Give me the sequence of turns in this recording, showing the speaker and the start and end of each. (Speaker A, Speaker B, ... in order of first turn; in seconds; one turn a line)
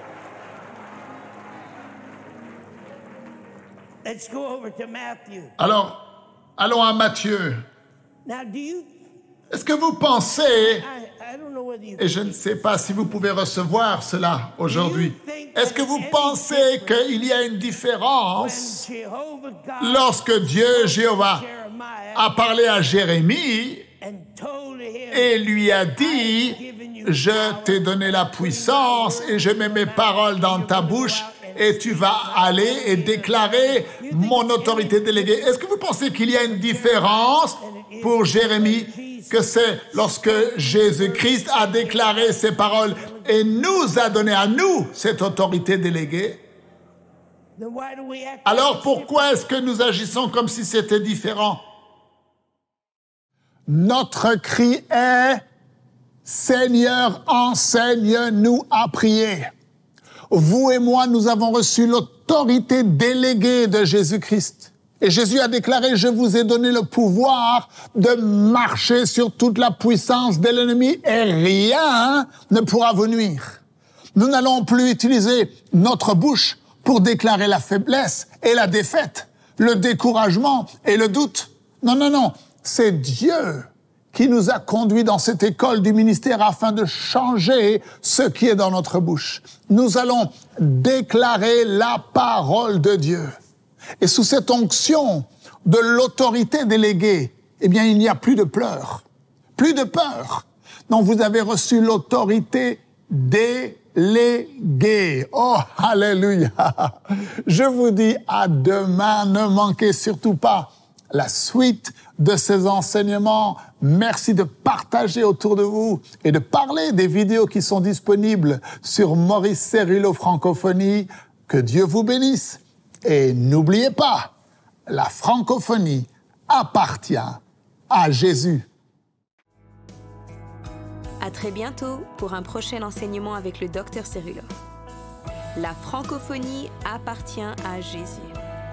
Speaker A: 4.0-5.5
Speaker B: 5.6-6.0
Speaker B: 6.6-7.6
Speaker A: 8.2-9.0
Speaker B: 9.5-10.8
Speaker A: 10.6-13.3
Speaker B: 12.0-18.9
Speaker A: 14.7-17.2
Speaker A: 18.3-22.3
Speaker B: 19.8-21.4
Speaker B: 22.1-23.9
Speaker A: 24.0-35.6
Speaker B: 25.1-46.4
Speaker A: 36.5-44.3
Speaker A: 47.5-49.5
Speaker B: 48.4-51.6
Speaker B: 53.7-55.4
Speaker B: 56.2-59.5
Speaker B: 60.3-73.6
Speaker B: 74.1-93.3
Speaker B: 94.0-99.0
Speaker B: 99.6-124.3
Speaker B: 124.9-128.7
Speaker C: 131.2-134.5
Speaker C: 135.6-138.3